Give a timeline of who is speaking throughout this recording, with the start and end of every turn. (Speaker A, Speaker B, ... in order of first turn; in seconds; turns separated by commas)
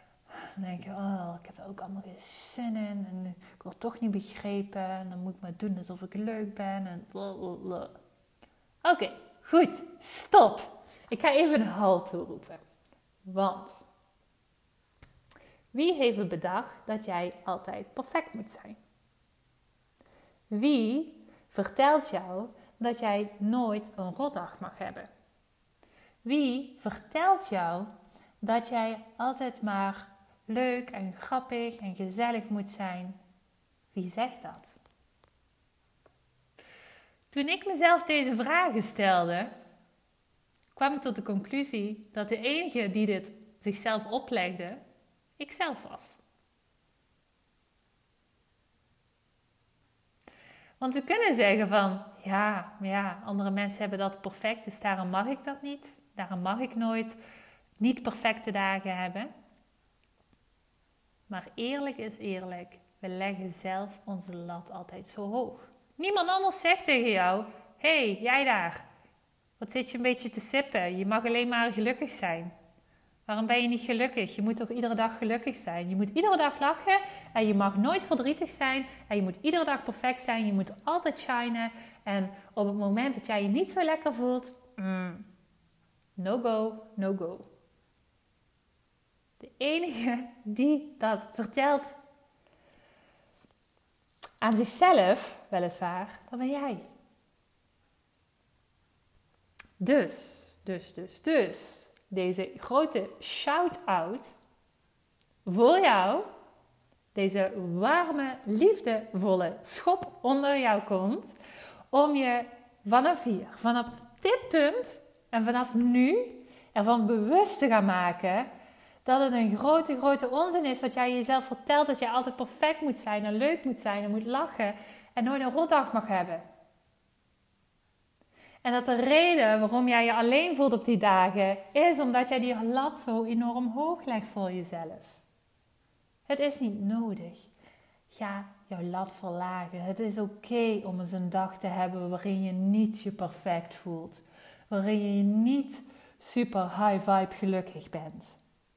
Speaker A: 0.3-8.0, Speaker A: 8.8-12.6, Speaker A: 13.2-13.8, Speaker A: 15.7-18.8, Speaker A: 20.5-25.1, Speaker A: 26.2-27.9, Speaker A: 28.4-33.2, Speaker A: 33.9-34.8, Speaker A: 37.3-39.5, Speaker A: 40.8-44.8, Speaker A: 45.4-46.2, Speaker A: 50.8-57.2, Speaker A: 57.8-59.3, Speaker A: 61.3-68.8, Speaker A: 69.6-72.5, Speaker A: 73.3-85.3, Speaker A: 86.2-87.5, Speaker A: 89.4-92.0, Speaker A: 94.4-96.8, Speaker A: 99.8-104.3, Speaker A: 105.5-106.3, Speaker A: 107.1-111.4, Speaker A: 111.9-118.5, Speaker A: 119.0-126.4, Speaker A: 128.6-135.2, Speaker A: 136.3-137.5, Speaker A: 138.1-148.4